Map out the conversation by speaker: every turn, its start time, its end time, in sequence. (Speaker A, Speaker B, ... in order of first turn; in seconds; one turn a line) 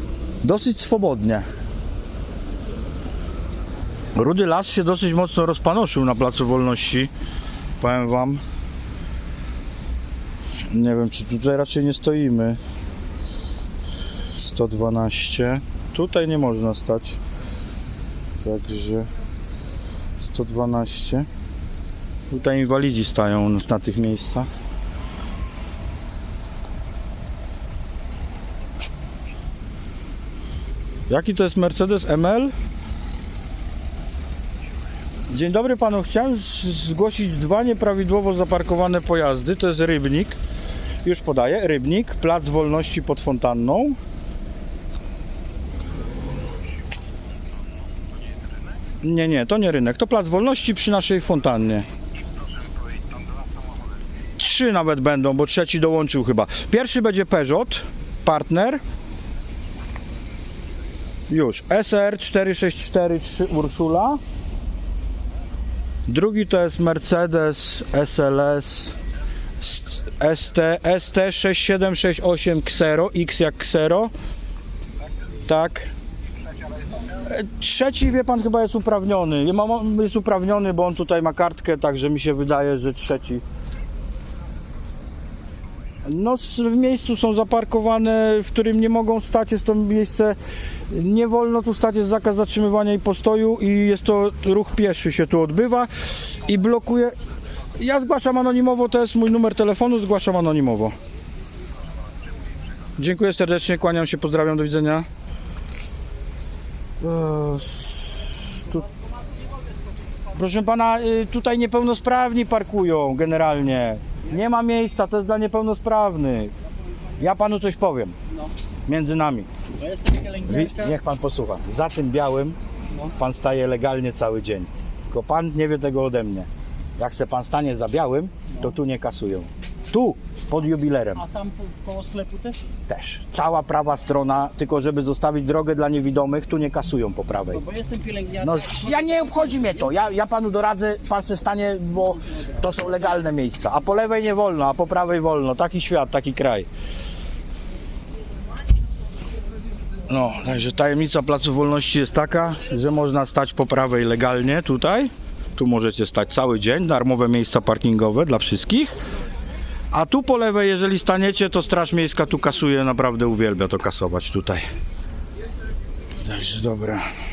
Speaker A: 0.4-1.4
Speaker A: 4.1-7.1
Speaker A: 7.8-8.4
Speaker A: 10.7-12.6
Speaker A: 14.3-17.2
Speaker A: 18.4-19.1
Speaker A: 20.2-21.3
Speaker A: 22.3-24.5
Speaker A: 31.1-32.5
Speaker A: 35.3-40.4
Speaker A: 41.0-44.0
Speaker A: 49.0-51.8
Speaker A: 54.4-58.8
Speaker A: 61.3-64.2
Speaker A: 66.1-69.0
Speaker A: 69.6-74.1
Speaker A: 75.5-75.9
Speaker A: 77.2-83.4
Speaker A: 86.0-90.4
Speaker A: 90.9-95.9
Speaker A: 96.5-97.1
Speaker A: 97.8-100.9
Speaker A: 103.0-105.0
Speaker A: 107.0-108.8
Speaker B: 109.0-109.7
Speaker A: 110.3-116.5
Speaker A: 117.2-118.2
Speaker A: 118.9-119.5
Speaker B: 119.8-120.9
Speaker A: 120.4-131.2
Speaker B: 131.2-132.6
Speaker A: 132.9-137.6
Speaker B: 137.5-139.7
Speaker A: 138.4-146.7
Speaker A: 150.1-158.9
Speaker A: 159.9-164.6
Speaker A: 166.2-167.0